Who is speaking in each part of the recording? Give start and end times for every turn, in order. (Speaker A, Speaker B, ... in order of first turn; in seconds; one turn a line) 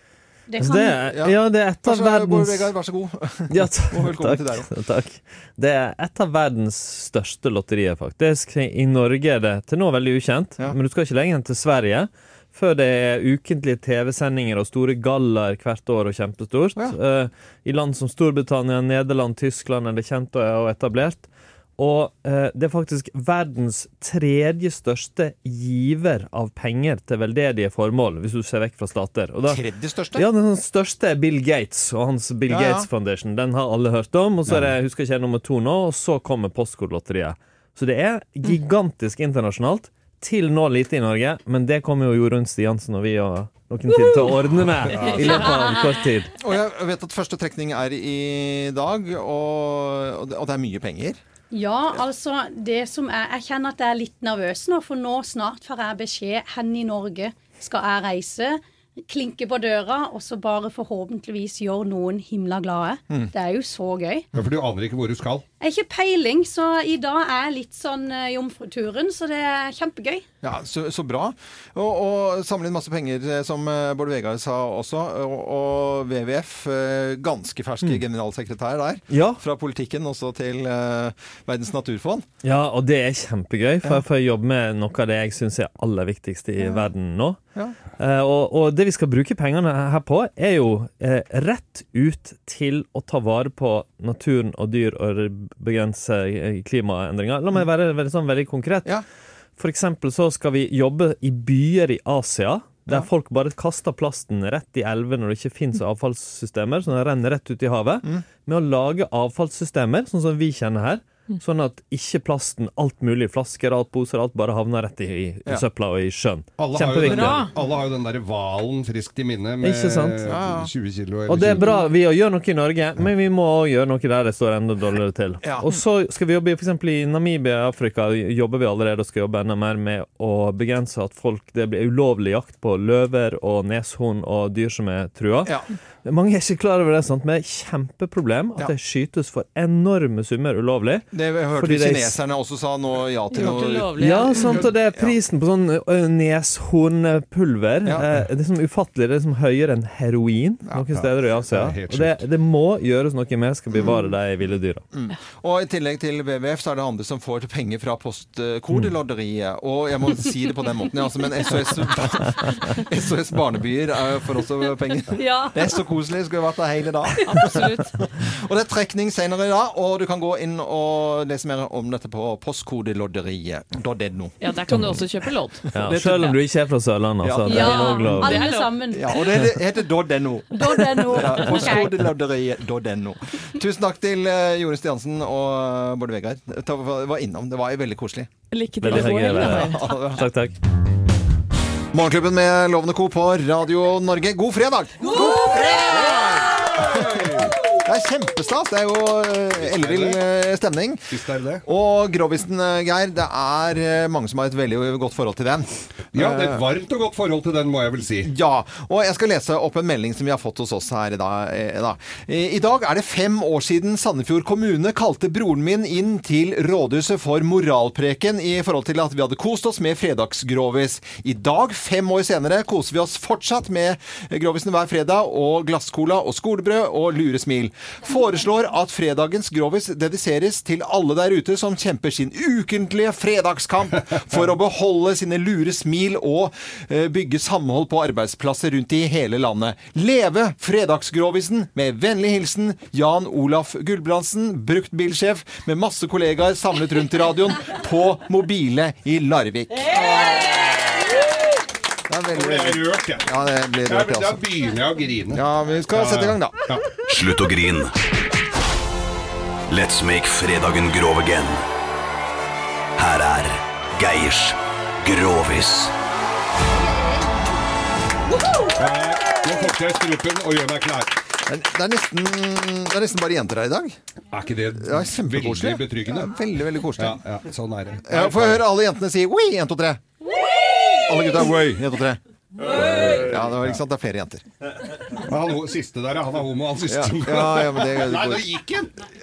Speaker A: 0.5-1.1
Speaker B: 0.6-2.7
Speaker C: 1.1-4.7
Speaker B: 3.5-46.3
Speaker C: 29.4-30.3
Speaker C: 32.5-32.9
Speaker D: 44.9-45.3
Speaker E: 45.0-45.8
Speaker C: 46.4-51.2
Speaker A: 51.5-64.3
Speaker D: 64.3-65.4
Speaker A: 65.6-70.2
Speaker C: 70.4-82.2
Speaker B: 79.1-79.4
Speaker B: 82.4-87.4
Speaker B: 88.0-98.9
Speaker B: 99.6-117.4
Speaker D: 116.6-121.8
Speaker E: 117.0-117.5
Speaker B: 119.6-120.2
Speaker C: 120.3-120.7
Speaker B: 121.3-142.2
Speaker C: 125.4-125.7
Speaker C: 141.1-145.2
Speaker E: 143.3-144.7
Speaker B: 143.9-154.8
Speaker D: 150.9-152.2
Speaker C: 153.7-154.0
Speaker C: 154.9-174.3
Speaker E: 165.2-165.8
Speaker E: 167.2-168.0
Speaker E: 174.4-176.3
Speaker B: 174.7-175.0
Speaker B: 175.7-178.5
Speaker C: 175.8-176.3
Speaker C: 177.2-178.3
Speaker A: 177.4-179.6
Speaker E: 177.5-179.2
Speaker C: 178.9-188.3
Speaker A: 180.5-182.1
Speaker E: 188.5-190.1
Speaker B: 188.8-190.5
Speaker C: 188.9-190.2
Speaker C: 191.9-197.2
Speaker D: 195.7-197.5
Speaker C: 197.8-201.1
Speaker D: 199.6-200.2
Speaker D: 201.1-201.6
Speaker C: 201.6-206.6
Speaker D: 206.1-208.3
Speaker C: 208.2-249.9
Speaker C: 252.1-254.4
Speaker D: 252.3-253.3
Speaker D: 253.8-256.9
Speaker C: 255.3-256.6
Speaker F: 257.1-257.9
Speaker F: 259.7-261.6
Speaker F: 263.0-265.9
Speaker D: 268.7-271.1
Speaker C: 271.5-274.0
Speaker D: 274.3-276.3
Speaker C: 274.8-277.2
Speaker D: 277.0-278.6
Speaker C: 278.1-280.0
Speaker C: 281.0-284.4
Speaker D: 282.6-283.8
Speaker D: 285.1-288.9
Speaker C: 286.9-288.5